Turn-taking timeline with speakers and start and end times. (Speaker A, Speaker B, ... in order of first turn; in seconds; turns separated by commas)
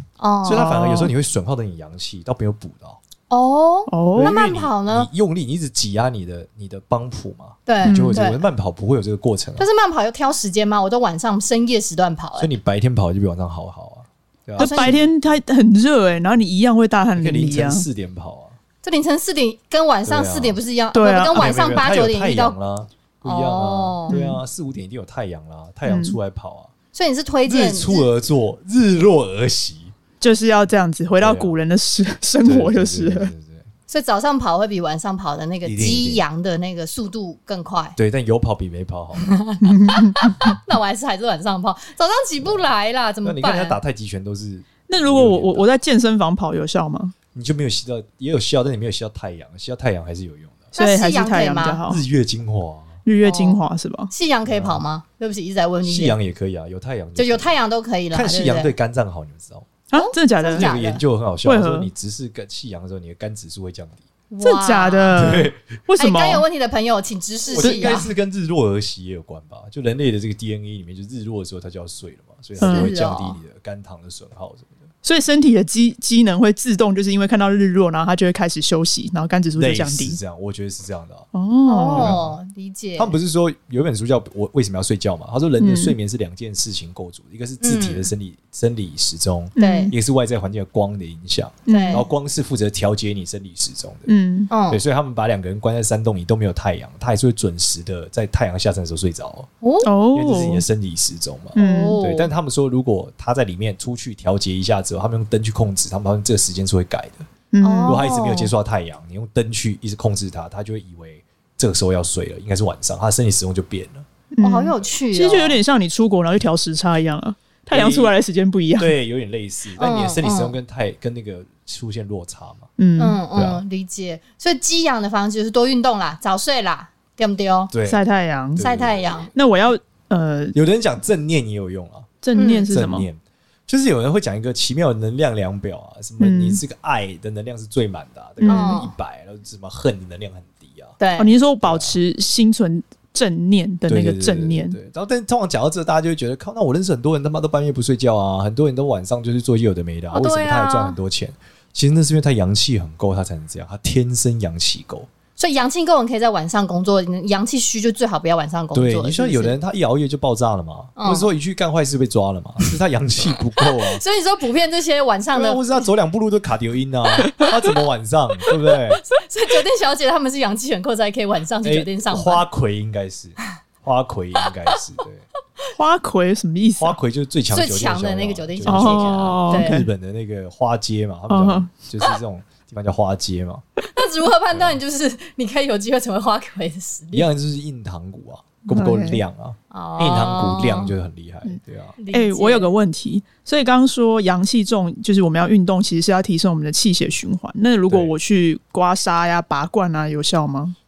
Speaker A: 0.2-0.8, Speaker B: 0.4-3.0, Speaker C: 0.6-1.1, Speaker A: 3.3-5.1, Speaker C: 3.9-4.3, Speaker B: 4.2-9.7, Speaker A: 7.7-8.5, Speaker C: 7.8-8.2, Speaker A: 9.6-12.5, Speaker B: 12.4-15.0, Speaker C: 14.6-17.9, Speaker A: 14.6-15.0, Speaker B: 17.2-18.6, Speaker A: 18.8-22.6, Speaker B: 20.1-20.6, Speaker C: 20.9-21.4, Speaker B: 21.3-26.7, Speaker A: 23.2-24.2, Speaker C: 24.1-24.4, Speaker C: 25.9-26.2, Speaker A: 26.9-28.1, Speaker B: 27.5-29.9, Speaker C: 30.2-33.3, Speaker B: 31.2-31.6, Speaker B: 32.4-33.7, Speaker A: 33.9-38.0, Speaker B: 35.6-36.2, Speaker B: 38.0-39.3, Speaker A: 39.2-43.8, Speaker C: 39.6-40.2, Speaker B: 43.2-45.7, Speaker C: 44.9-47.1, Speaker B: 47.3-50.7, Speaker C: 50.7-52.0, Speaker A: 50.8-51.8, Speaker B: 51.9-53.0, Speaker C: 53.0-54.1, Speaker A: 53.2-53.6, Speaker A: 54.1-56.2, Speaker B: 54.5-54.8, Speaker B: 55.8-57.5, Speaker A: 57.2-58.7, Speaker B: 58.1-59.7, Speaker C: 59.9-60.7, Speaker A: 59.9-61.0, Speaker B: 60.5-64.0, Speaker C: 61.5-61.9, Speaker A: 64.3-65.3, Speaker C: 64.4-66.4, Speaker B: 65.2-65.7, Speaker A: 66.0-68.1, Speaker B: 67.5-74.8, Speaker C: 67.6-68.0, Speaker C: 72.6-72.9, Speaker A: 72.6-73.4, Speaker C: 75.0-80.2, Speaker B: 79.6-81.3, Speaker C: 81.3-82.2, Speaker A: 81.7-83.2, Speaker B: 81.9-82.4, Speaker B: 83.0-94.1, Speaker C: 85.6-86.0, Speaker A: 87.6-88.1, Speaker C: 89.6-89.9, Speaker A: 89.6-89.9, Speaker C: 91.7-92.0, Speaker A: 91.7-92.0, Speaker C: 94.1-94.5, Speaker A: 94.5-94.8, Speaker B: 94.7-99.5, Speaker A: 99.6-99.9, Speaker C: 99.8-100.6, Speaker B: 100.1-107.3, Speaker C: 101.6-102.0, Speaker A: 101.6-102.3, Speaker C: 107.5-108.0, Speaker A: 107.6-108.5, Speaker B: 107.8-114.1, Speaker C: 114.3-118.9, Speaker A: 114.4-115.6, Speaker B: 117.7-118.2, Speaker B: 118.8-122.7, Speaker A: 119.8-120.5, Speaker C: 122.8-123.2, Speaker A: 123.0-127.7, Speaker B: 123.3-123.6, Speaker B: 127.7-128.0, Speaker C: 127.8-128.6, Speaker B: 128.6-129.1, Speaker A: 128.6-129.3, Speaker C: 129.3-130.6, Speaker B: 130.5-141.0, Speaker C: 132.2-133.1, Speaker A: 132.3-132.7, Speaker C: 136.2-136.6, Speaker C: 138.4-138.8, Speaker A: 138.5-138.9, Speaker A: 141.0-141.3, Speaker C: 141.2-144.8, Speaker B: 141.6-142.0, Speaker B: 143.9-155.1, Speaker A: 150.1-151.0, Speaker A: 155.4-159.6, Speaker B: 158.7-164.0, Speaker A: 161.0-161.3, Speaker A: 163.7-165.8, Speaker B: 165.3-169.0, Speaker A: 169.0-172.4, Speaker B: 171.6-175.3, Speaker C: 175.8-177.0, Speaker B: 176.8-183.6, Speaker A: 177.5-179.8, Speaker C: 178.7-179.9, Speaker C: 181.3-181.7, Speaker A: 183.9-187.3, Speaker B: 184.5-184.8, Speaker B: 187.1-192.0, Speaker C: 188.7-189.2, Speaker A: 189.7-190.9, Speaker A: 192.0-192.7, Speaker C: 192.1-200.8, Speaker B: 197.9-198.1